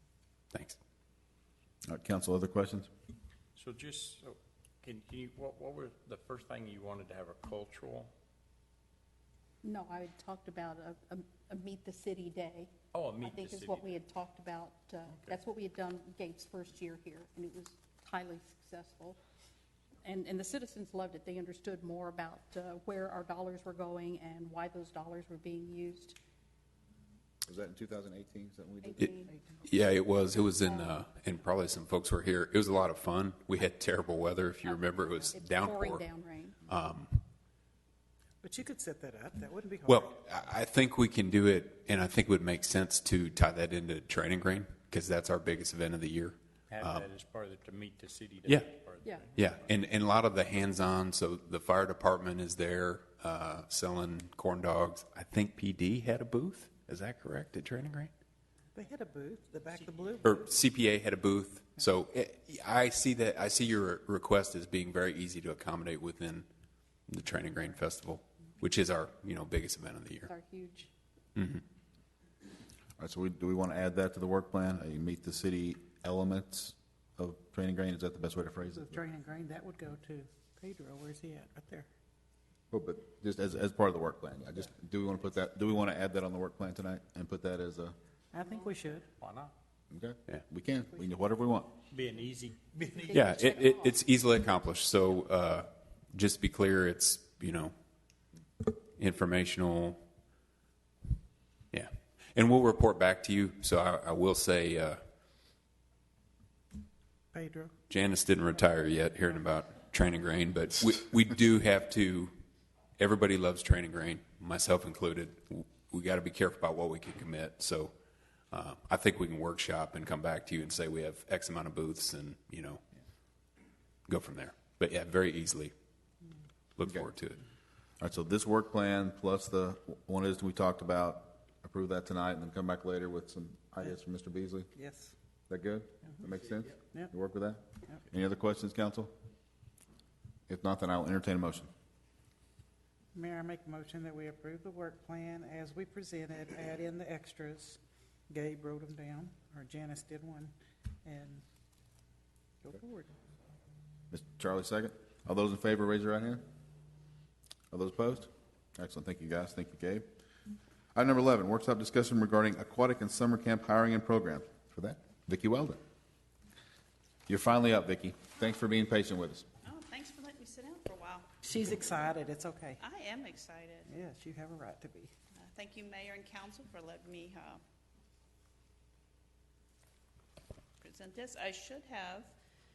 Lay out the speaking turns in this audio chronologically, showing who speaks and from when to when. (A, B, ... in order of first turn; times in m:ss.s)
0:00.5-0:00.8 A
0:01.8-0:02.9 B
0:03.6-0:08.1 C
0:09.6-0:19.2 D
0:12.9-0:14.0 C
0:15.1-0:15.4 C
0:20.0-0:26.2 D
0:27.4-0:29.2 B
0:28.8-0:29.3 D
0:29.6-0:36.1 A
0:30.5-0:31.0 D
0:34.6-0:36.6 D
0:36.6-0:37.2 A
0:38.4-0:40.1 E
0:39.8-0:47.1 A
0:46.7-0:49.8 C
0:49.0-0:49.3 D
0:49.3-0:58.1 A
0:58.7-1:00.5 E
1:00.2-1:06.4 A
1:07.1-1:10.3 A
1:10.2-1:10.9 D
1:11.4-1:11.6 A
1:13.0-1:19.0 B
1:18.7-1:21.9 E
1:22.7-1:27.9 B
1:28.3-1:29.0 E
1:29.2-1:29.5 C
1:29.9-1:31.7 B
1:31.9-1:33.1 C
1:33.0-1:34.0 D
1:33.1-1:37.7 A
1:38.6-1:40.0 A
1:41.7-1:45.0 A
1:47.3-1:47.7 E
1:47.9-1:52.3 A
1:53.0-1:57.9 A
1:58.5-2:02.8 A
2:04.1-2:05.7 A
2:06.8-2:07.4 A
2:08.0-2:14.7 B
2:14.7-2:15.1 E
2:15.5-2:19.1 B
2:20.5-2:21.7 B
2:23.1-2:31.4 E
2:32.6-2:33.1 E
2:34.1-2:36.4 B
2:37.7-2:40.0 B
2:40.9-2:45.8 B
2:47.3-2:49.4 B
2:49.6-2:51.3 F
2:51.4-2:52.8 E
2:52.8-2:53.9 F
2:53.9-2:55.1 E
2:55.4-2:57.6 F
3:00.8-3:02.3 F